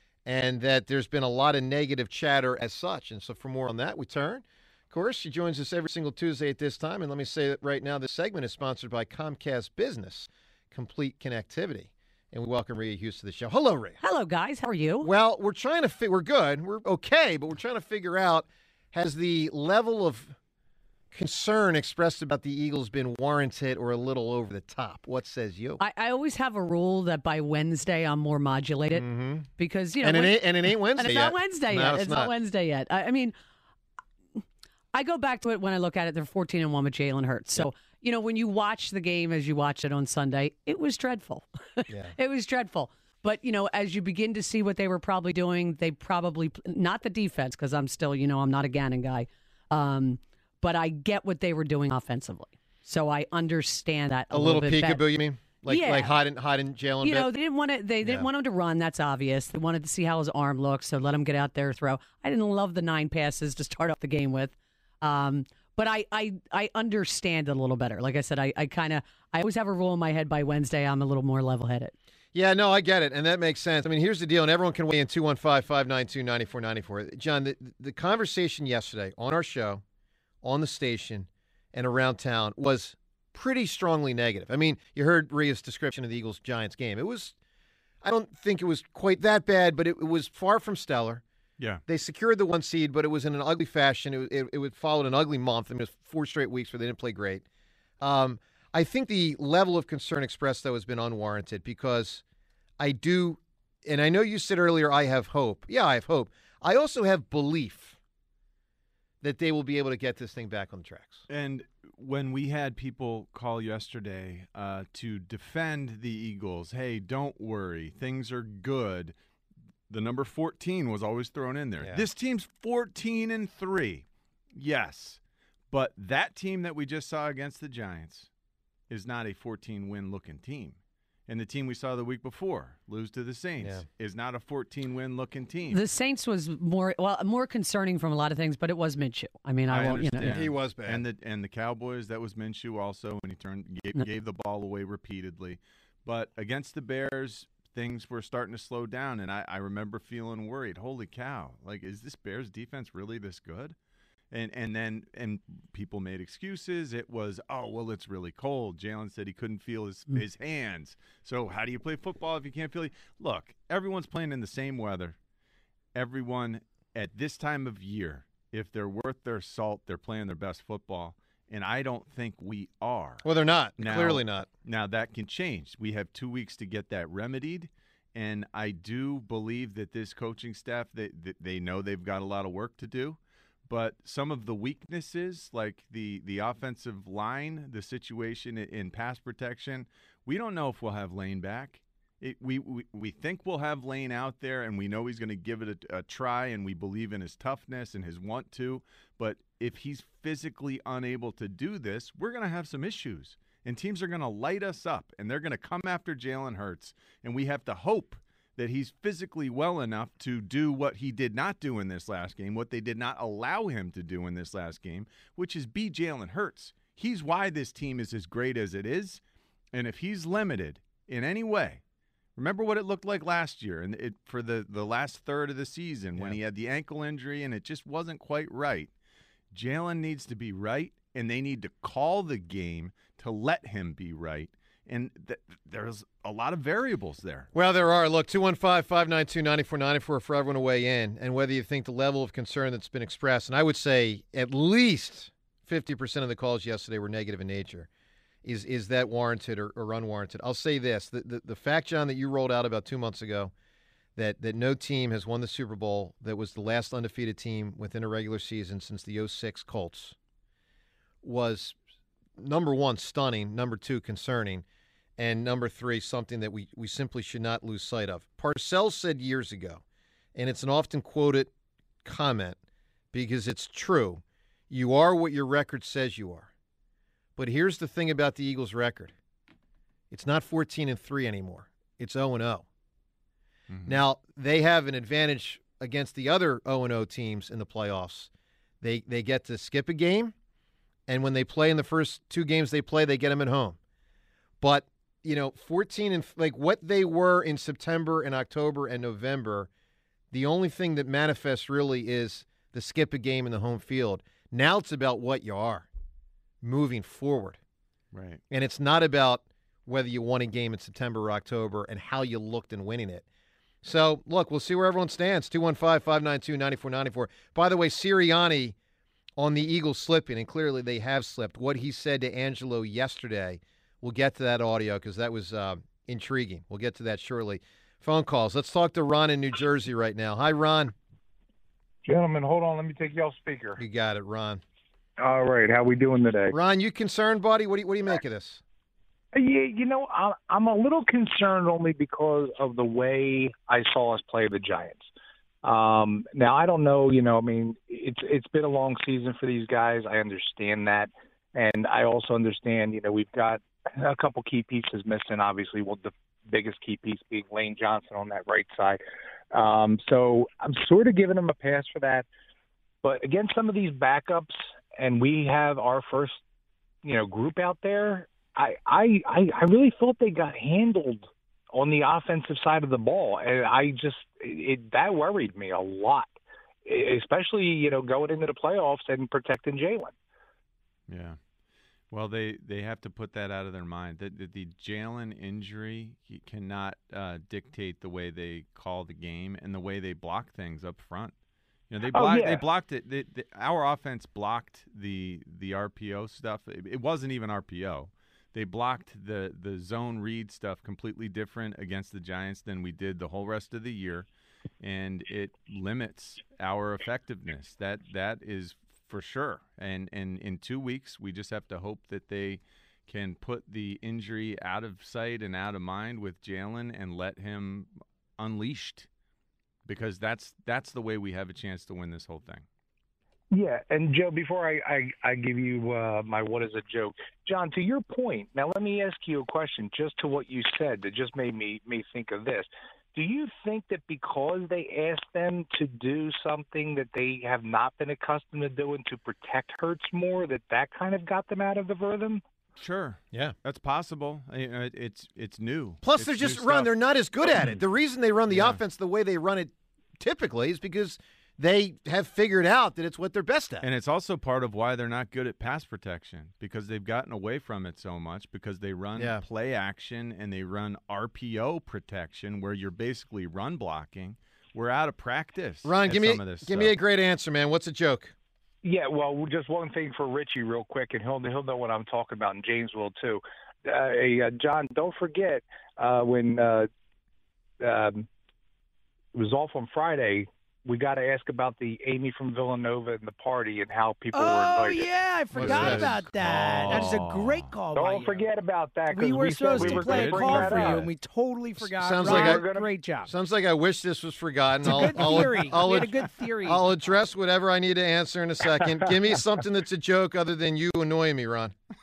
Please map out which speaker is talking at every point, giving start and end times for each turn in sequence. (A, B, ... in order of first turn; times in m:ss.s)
0:00.2-0:14.0 A
0:14.0-0:15.1 B
0:15.0-0:20.4 A
0:21.1-0:25.8 A
0:25.8-0:29.0 B
0:28.9-0:29.5 A
0:29.6-0:33.3 B
0:30.0-0:32.3 A
0:34.9-0:55.0 B
0:41.9-0:42.1 A
0:54.3-0:57.3 A
0:55.7-0:56.2 B
0:57.0-1:11.9 B
1:12.3-1:19.8 A
1:20.4-1:27.3 A
1:28.0-1:31.2 A
1:31.9-1:37.4 A
1:38.0-1:42.2 A
1:42.8-1:48.0 A
1:49.2-1:51.2 A
1:51.3-1:59.1 C
1:59.9-2:05.2 C
2:01.8-2:02.0 A
2:05.7-2:08.3 C
2:08.9-2:15.8 C
2:13.6-2:13.8 A
2:15.7-2:20.4 B
2:19.7-2:33.8 C
2:20.2-2:21.0 A
2:34.3-2:45.2 C
2:45.9-2:53.2 C
2:53.2-2:54.5 A
2:53.8-3:39.2 C
3:39.7-3:41.8 C
3:42.4-3:48.9 C
3:49.5-3:57.5 C
3:57.5-4:07.9 A
4:08.4-4:13.5 A
4:14.2-4:20.2 A
4:21.2-4:21.8 A
4:22.4-4:24.6 A
4:25.2-4:29.8 A
4:30.3-4:31.5 A
4:32.0-4:32.6 A
4:33.1-4:36.5 A
4:37.4-4:39.1 A
4:40.1-4:42.6 A
4:43.7-4:44.0 C
4:43.8-4:48.3 A
4:48.8-4:50.3 A
4:51.1-4:53.8 A
4:54.6-4:59.7 A
5:00.3-5:05.9 A
5:06.6-5:07.6 A
5:08.1-5:08.4 C
5:08.5-5:13.2 A
5:13.8-5:18.8 A
5:19.4-5:30.9 A
5:32.0-5:33.8 D
5:33.8-5:34.6 A
5:35.2-5:36.5 D
5:36.5-5:38.6 A
5:39.3-5:45.1 D
5:45.6-6:02.3 D
6:03.0-6:06.4 D
6:07.0-6:16.3 D
6:16.8-6:20.1 D
6:21.1-6:21.4 C
6:22.1-6:31.3 C
6:31.9-6:44.3 C
6:32.1-6:32.6 D
6:44.8-6:59.1 C
6:59.8-7:02.6 C
7:03.5-7:22.4 D
7:22.8-7:26.9 C
7:26.0-7:33.9 A
7:27.4-7:27.8 C
7:28.5-7:28.8 C
7:33.8-7:46.9 C
7:39.2-7:39.4 A
7:45.8-7:48.3 A
7:48.8-7:56.9 D
7:57.8-7:58.3 D
7:59.3-8:05.1 D
8:04.3-8:08.5 E
8:05.5-8:06.2 A
8:05.6-8:07.7 C
8:07.9-8:11.1 D
8:09.1-8:13.3 E
8:09.7-8:11.1 C
8:11.8-8:12.6 A
8:12.1-8:12.9 D
8:13.2-8:21.7 A
8:14.8-8:16.8 E
8:15.4-8:15.8 D